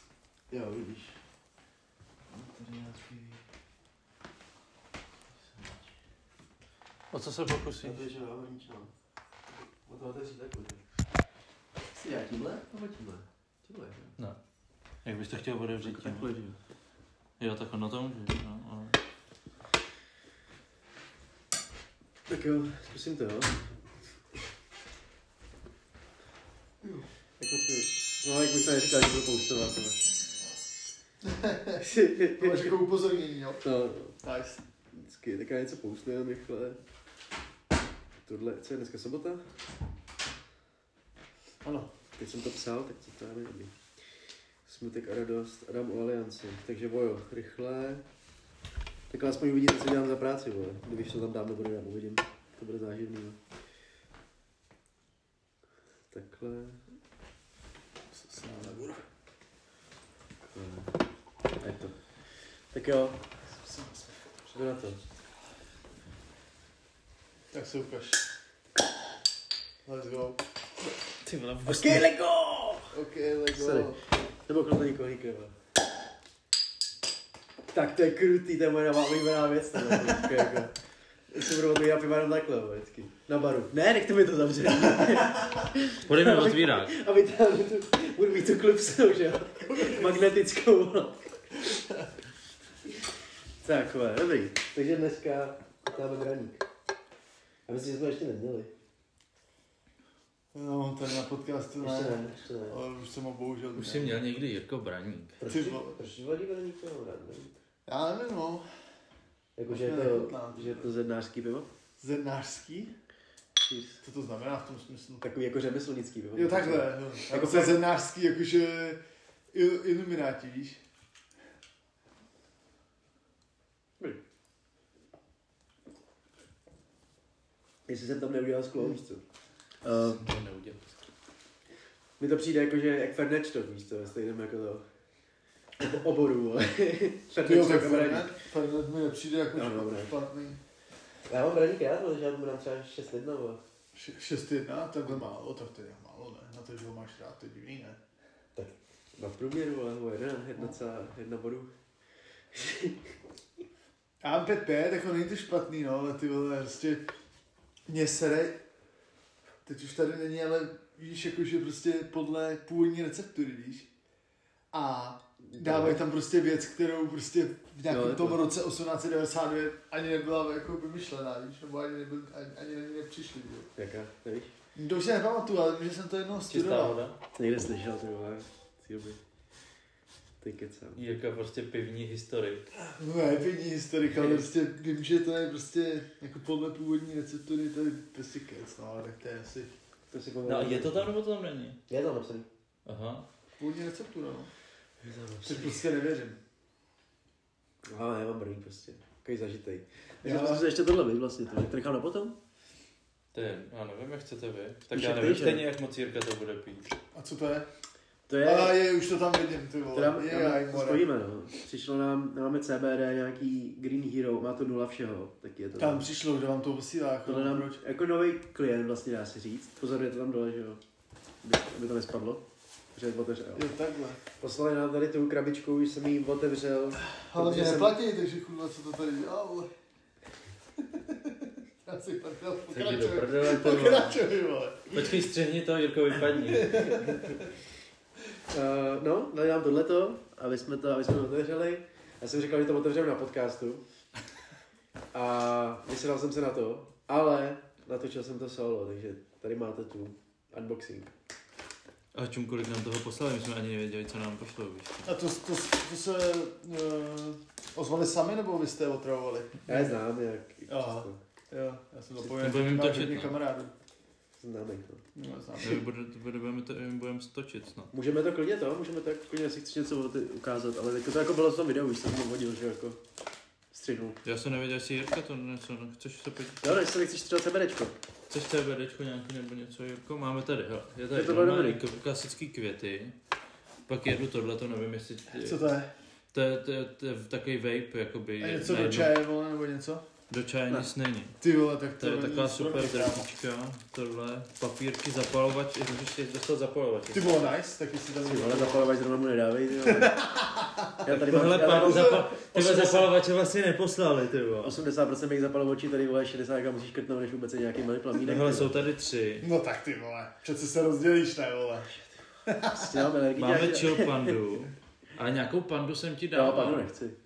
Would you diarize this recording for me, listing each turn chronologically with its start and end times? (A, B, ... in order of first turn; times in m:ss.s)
0:00.5-0:01.2 A
0:02.3-0:03.4 A
0:05.4-0:05.9 A
0:07.1-0:08.0 B
0:07.8-0:08.9 A
0:09.8-0:10.8 A
0:11.9-0:14.1 A
0:15.0-0:16.3 B
0:15.8-0:16.6 A
0:17.4-0:19.0 B
0:22.3-0:23.6 A
0:27.4-0:30.0 A
0:31.2-0:33.6 C
0:31.8-0:32.8 A
0:33.6-0:34.2 A
0:34.2-0:34.6 C
0:34.9-0:36.8 A
0:38.2-0:39.5 A
0:41.6-0:41.9 C
0:42.2-0:43.8 A
0:44.6-0:48.0 A
0:49.1-0:53.4 A
0:56.1-0:56.8 A
0:58.1-0:59.0 C
1:00.4-1:01.0 A
1:01.6-1:02.0 A
1:02.7-1:03.3 A
1:03.5-1:04.1 C
1:04.4-1:05.0 A
1:07.5-1:08.2 C
1:09.8-1:10.4 C
1:11.2-1:12.1 B
1:11.6-1:12.9 A
1:12.9-1:14.0 C
1:13.5-1:15.5 A
1:17.7-1:20.7 A
1:20.0-1:20.6 C
1:21.3-1:31.4 A
1:26.0-1:26.9 B
1:29.7-1:30.1 C
1:33.6-1:36.6 A
1:37.7-1:38.7 A
1:40.5-1:44.2 C
1:41.8-1:42.8 A
1:43.8-1:45.4 B
1:45.4-1:47.6 A
1:45.4-1:45.9 C
1:47.8-1:48.7 C
1:49.6-1:51.7 A
1:49.7-1:50.9 C
1:52.0-1:52.9 C
1:53.6-1:54.0 A
1:54.0-1:55.2 C
1:55.2-1:57.8 A
1:56.3-1:59.0 C
1:59.5-2:00.8 C
2:07.9-2:09.2 A
2:09.8-2:11.0 B
2:12.2-2:14.9 A
2:15.8-2:18.3 A
2:17.4-2:20.6 C
2:19.5-2:20.1 A
2:21.3-2:23.6 A
2:23.9-2:28.0 C
2:28.5-2:31.7 A
2:32.5-2:33.0 A
2:34.2-2:37.1 C
2:37.9-2:38.6 C
2:39.6-2:43.9 C
2:44.7-2:53.7 C
2:45.4-2:46.0 A
2:47.9-2:48.4 A
2:53.8-2:54.5 A
2:54.7-2:57.0 C
2:56.5-2:57.2 B
2:57.4-2:59.2 A
3:00.4-3:01.0 A
3:01.0-3:02.6 B
3:02.8-3:09.7 C
3:04.2-3:04.4 B
3:10.1-3:11.1 A
3:10.5-3:11.8 B
3:11.9-3:12.5 A
3:12.8-3:13.2 B
3:13.6-3:14.5 C
3:15.0-3:15.8 A
3:15.4-3:16.4 C
3:17.8-3:22.4 A
3:20.2-3:20.7 C
3:23.3-3:26.9 B
3:24.9-3:25.6 A
3:27.1-3:27.7 C
3:28.3-3:28.8 A
3:28.4-3:31.1 C
3:29.9-3:36.0 A
3:35.8-3:37.8 C
3:37.2-3:40.8 A
3:41.4-3:43.7 A
3:43.5-3:44.2 C
3:44.4-3:48.0 A
3:47.0-3:49.7 C
3:50.8-3:55.1 C
3:52.7-3:54.2 B
3:54.9-3:56.9 B
3:56.3-3:57.5 C
3:56.8-3:57.4 A
3:58.5-4:03.8 A
4:05.1-4:11.1 A
4:12.1-4:15.1 B
4:15.0-4:20.0 C
4:19.6-4:21.2 A
4:20.7-4:23.7 C
4:22.2-4:23.3 B
4:24.4-4:25.0 A
4:25.1-4:25.8 C
4:25.6-4:27.9 B
4:27.9-4:33.0 A
4:33.7-4:34.2 A
4:34.2-4:36.8 B
4:36.6-4:38.0 A
4:38.3-4:43.2 B
4:41.1-4:41.8 A
4:43.9-4:45.6 B
4:45.3-4:45.9 C
4:46.3-4:49.1 B
4:48.4-4:50.1 C
4:50.3-4:51.4 B
4:51.4-4:53.3 C
4:52.0-4:57.4 B
4:57.1-4:58.9 C
4:58.2-5:00.1 A
4:59.8-5:00.9 C
5:01.0-5:02.2 A
5:01.1-5:04.8 B
5:01.6-5:03.1 C
5:04.6-5:08.7 A
5:08.2-5:09.4 B
5:09.4-5:13.0 C
5:12.7-5:14.3 A
5:13.4-5:16.9 B
5:16.3-5:17.2 A